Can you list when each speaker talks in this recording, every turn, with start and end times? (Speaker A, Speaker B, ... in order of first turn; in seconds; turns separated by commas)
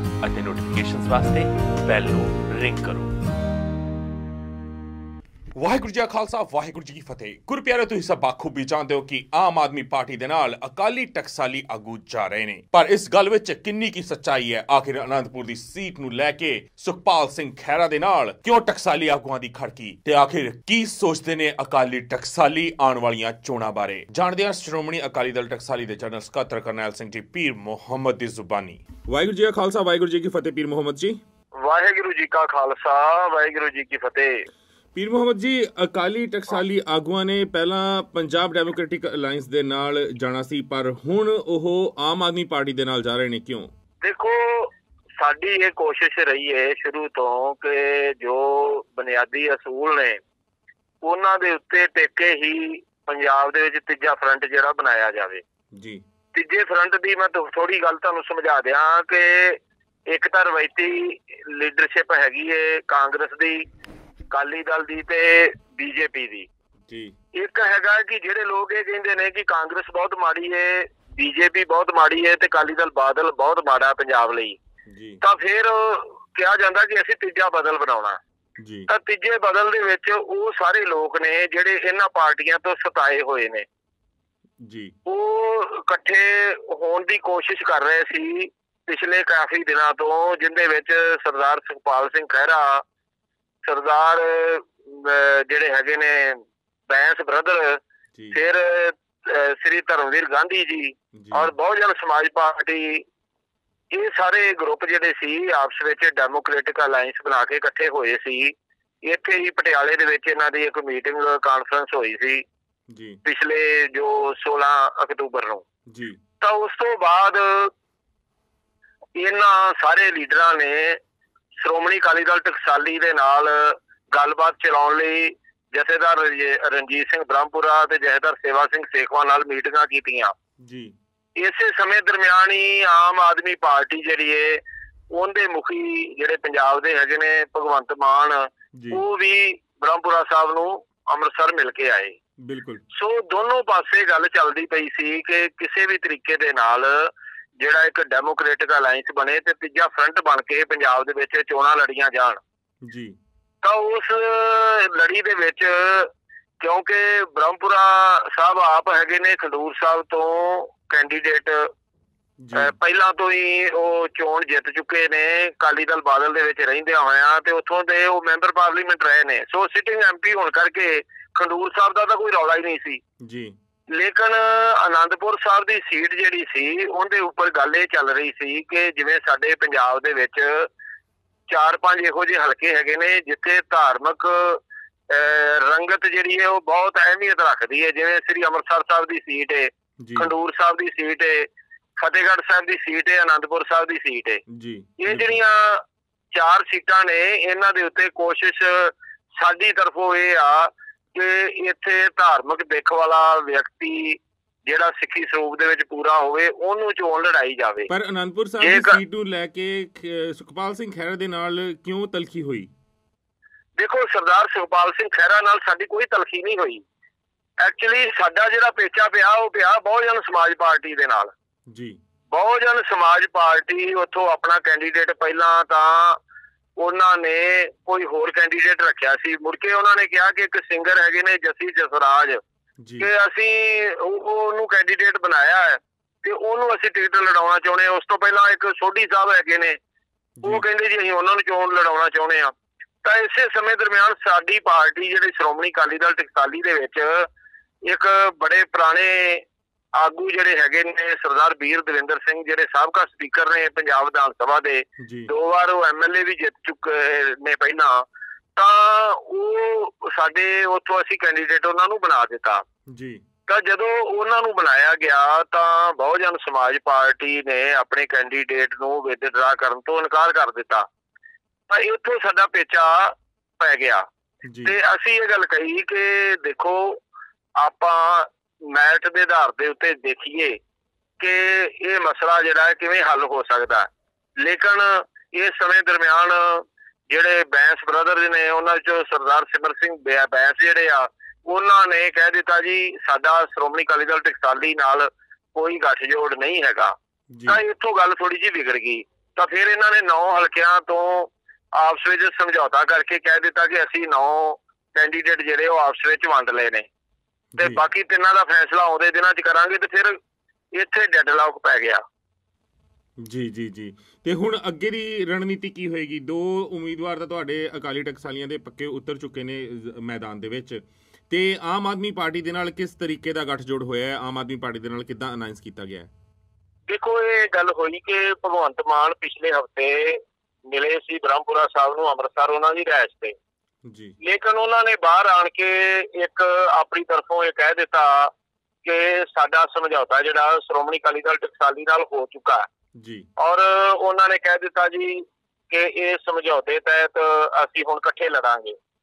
Speaker A: 0.2-3.1, Speaker B: 5.6-31.2, Speaker C: 31.6-34.4, Speaker B: 35.0-43.7, Speaker C: 44.0-50.2, Speaker C: 51.0-55.4, Speaker B: 55.8-56.0, Speaker C: 56.3-63.6, Speaker C: 64.3-66.5, Speaker B: 66.9-67.1, Speaker C: 67.3-74.6, Speaker B: 74.9-75.2, Speaker C: 75.2-78.2, Speaker B: 78.6-78.9, Speaker C: 78.9-83.7, Speaker B: 84.6-84.9, Speaker C: 85.1-92.8, Speaker C: 93.7-103.0, Speaker B: 101.2-101.5, Speaker C: 103.9-108.5, Speaker C: 109.0-112.4, Speaker B: 112.9-113.2, Speaker C: 113.2-115.7, Speaker B: 115.9-116.2, Speaker C: 116.4-117.7, Speaker C: 119.2-121.0, Speaker C: 121.6-130.3, Speaker B: 130.6-130.9, Speaker C: 131.4-142.2, Speaker B: 142.5-142.8, Speaker C: 142.9-152.4, Speaker B: 152.8-153.2, Speaker C: 153.6-161.7, Speaker B: 162.4-162.7, Speaker C: 162.6-173.0, Speaker B: 173.2-173.6, Speaker C: 173.9-180.7, Speaker C: 181.5-194.4, Speaker B: 190.0-190.3, Speaker B: 194.5-195.4, Speaker C: 195.0-207.9, Speaker B: 207.9-212.7, Speaker C: 208.6-209.0, Speaker C: 213.8-216.8, Speaker C: 217.6-221.3, Speaker B: 221.7-222.0, Speaker C: 222.3-226.2, Speaker C: 226.8-232.4, Speaker B: 232.8-233.1, Speaker C: 233.0-239.8, Speaker B: 240.4-240.7, Speaker C: 240.4-242.5, Speaker C: 243.0-247.3, Speaker C: 247.9-249.4, Speaker C: 250.0-258.0, Speaker B: 255.0-255.3, Speaker C: 258.6-262.6, Speaker B: 262.9-263.2, Speaker C: 263.5-270.9, Speaker C: 271.7-274.0, Speaker B: 274.4-274.8, Speaker C: 274.6-277.0, Speaker C: 277.6-280.6, Speaker C: 281.2-283.9, Speaker C: 284.4-296.9, Speaker B: 297.3-297.6, Speaker C: 297.5-306.9, Speaker B: 307.6-307.8, Speaker C: 307.6-310.2, Speaker C: 310.7-312.0, Speaker B: 313.2-326.1, Speaker C: 326.9-333.4, Speaker B: 333.9-334.1, Speaker C: 334.2-338.3, Speaker C: 338.8-342.6, Speaker B: 343.0-343.3, Speaker C: 343.4-348.8